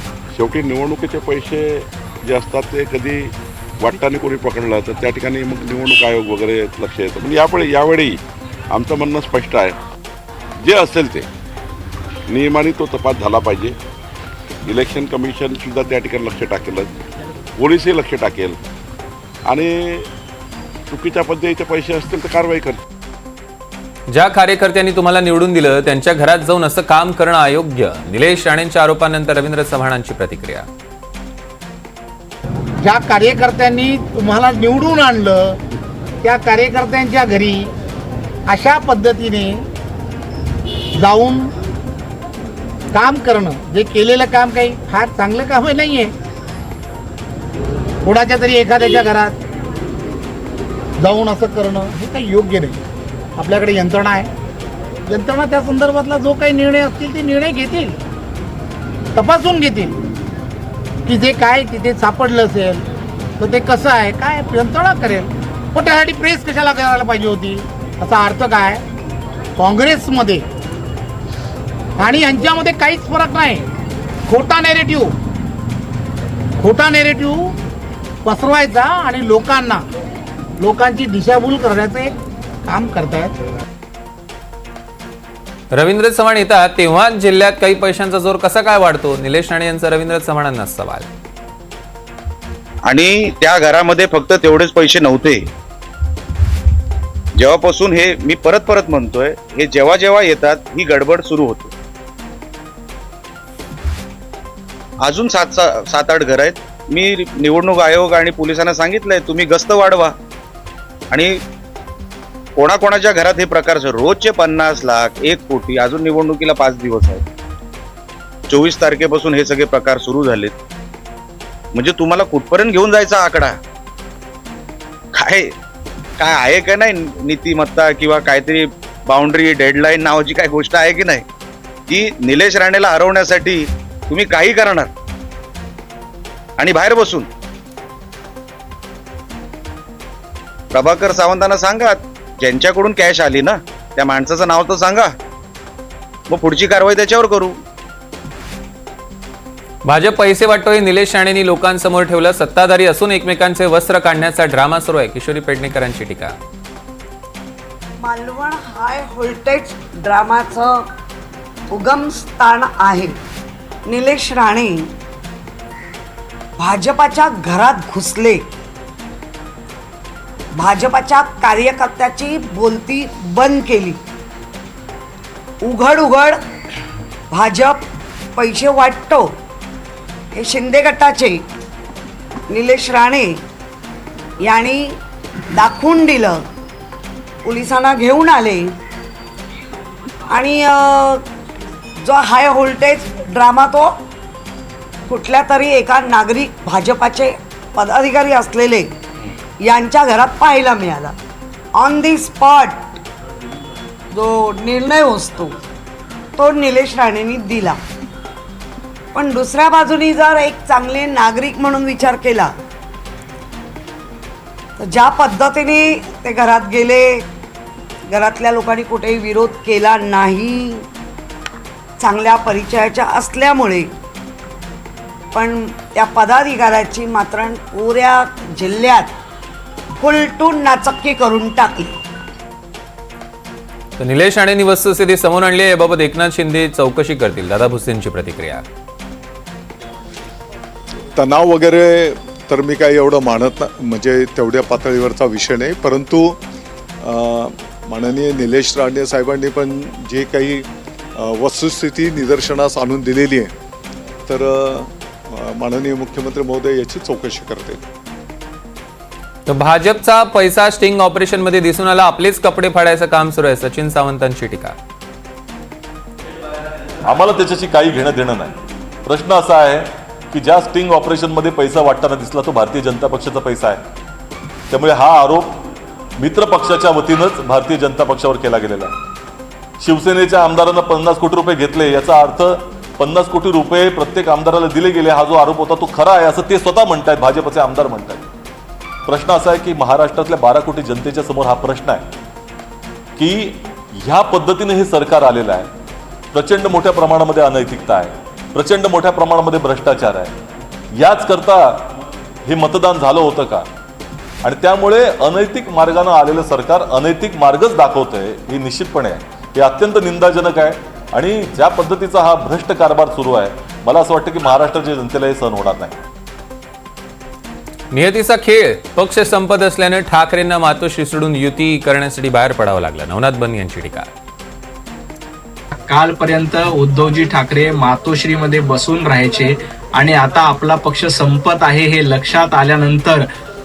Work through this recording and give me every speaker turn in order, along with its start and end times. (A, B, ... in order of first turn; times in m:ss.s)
0:00.3-0:08.2 A
0:08.7-0:09.8 A
0:10.6-0:11.2 A
0:12.3-0:13.8 A
0:14.7-0:16.9 A
0:17.6-0:18.6 A
0:19.5-0:20.1 A
0:20.9-0:22.8 A
0:24.1-0:30.7 B
0:32.8-0:35.4 C
0:36.2-0:37.6 C
0:38.5-0:39.5 C
0:41.0-0:41.4 C
0:42.9-0:46.1 C
0:48.0-0:49.3 C
0:51.0-0:52.8 C
0:53.4-0:54.2 C
0:55.1-0:57.9 C
0:59.2-0:59.9 C
1:01.1-1:02.8 C
1:03.4-1:08.8 C
1:09.6-1:10.4 C
1:12.0-1:13.6 C
1:14.3-1:15.1 C
1:16.6-1:17.4 C
1:18.2-1:19.8 C
1:20.6-1:22.1 C
1:22.7-1:23.3 C
1:25.7-1:31.1 B
1:32.9-1:35.4 D
1:37.4-1:41.7 D
1:45.0-1:50.1 D
1:51.1-1:51.4 D
1:52.6-1:57.2 D
1:58.5-2:00.6 D
2:01.7-2:03.6 D
2:05.2-2:05.5 D
2:06.2-2:11.2 D
2:11.9-2:14.9 D
2:16.6-2:17.3 D
2:20.7-2:25.1 D
2:26.3-2:27.6 D
2:29.9-2:36.3 B
2:38.0-2:40.9 E
2:41.7-2:43.2 E
2:43.9-2:44.9 E
2:46.6-2:48.4 E
2:50.6-2:54.0 E
2:55.6-2:56.4 E
2:57.3-2:57.8 E
2:58.4-2:59.4 E
3:00.3-3:01.4 E
3:02.5-3:03.4 E
3:04.4-3:05.0 E
3:05.5-3:06.4 E
3:07.4-3:08.8 E
3:10.3-3:11.2 E
3:12.0-3:14.0 E
3:15.1-3:18.9 E
3:19.6-3:21.1 E
3:21.8-3:23.0 E
3:24.1-3:25.6 E
3:26.4-3:27.8 E
3:29.1-3:32.6 E
3:34.8-3:37.2 E
3:38.1-3:40.9 E
3:42.0-3:43.9 E
3:45.3-3:49.1 E
3:50.0-3:51.9 E
3:54.0-3:58.6 B
4:01.2-4:06.4 F
4:07.0-4:10.6 F
4:11.2-4:13.5 F
4:14.3-4:17.8 F
4:19.5-4:24.8 B
4:27.0-4:33.8 G
4:34.7-4:35.6 G
4:36.2-4:39.0 G
4:39.8-4:48.2 G
4:49.1-4:52.0 G
4:53.2-4:55.7 G
4:56.3-5:00.3 G
5:00.9-5:01.9 G
5:02.4-5:03.7 G
5:04.4-5:15.9 G
5:17.9-5:24.1 B
5:25.8-5:33.2 H